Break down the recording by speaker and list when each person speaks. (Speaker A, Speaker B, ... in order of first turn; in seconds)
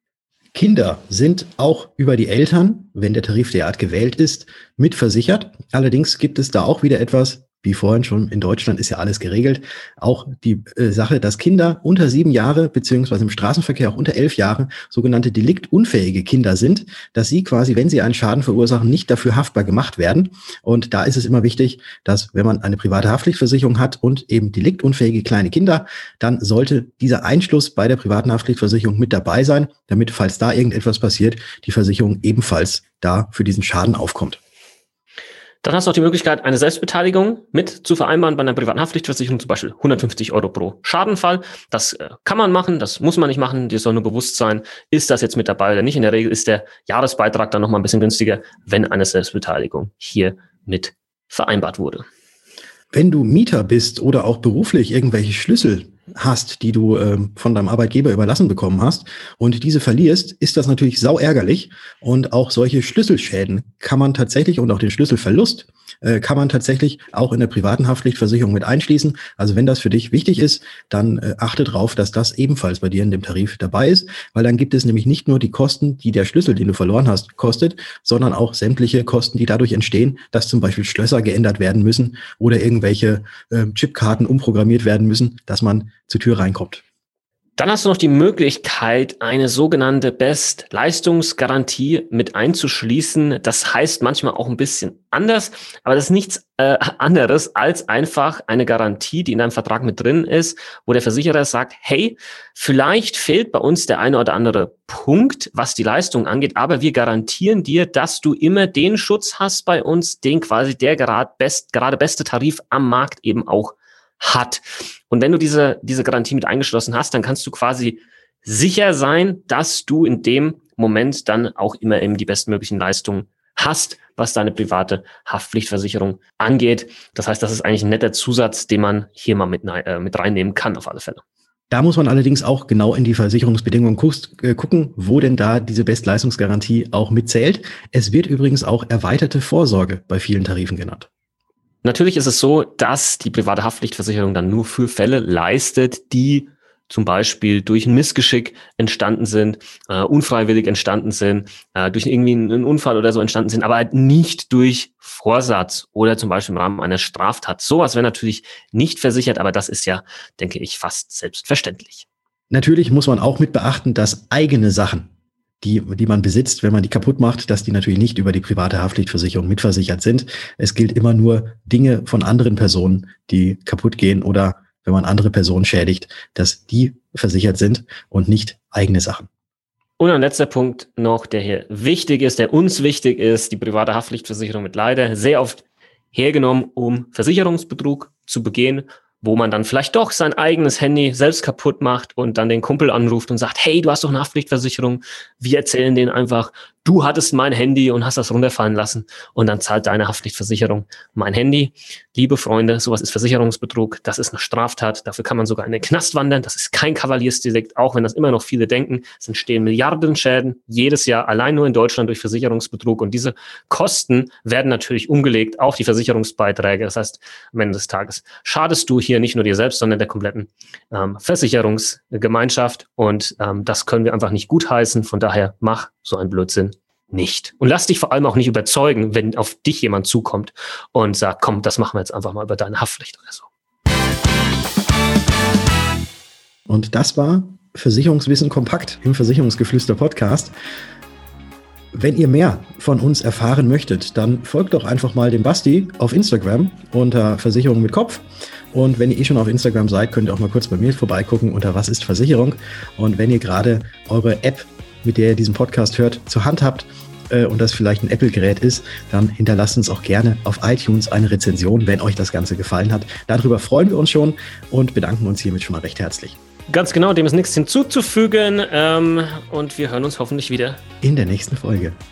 Speaker A: 0.5-34.4, 52.9-86.8, 131.7-141.1, 162.5-165.1, 165.6-179.3, 236.7-240.5, 241.9-266.4, 271.0-272.0
Speaker B: 35.6-52.0, 87.6-131.2, 141.8-162.1, 180.0-233.5, 266.7-270.8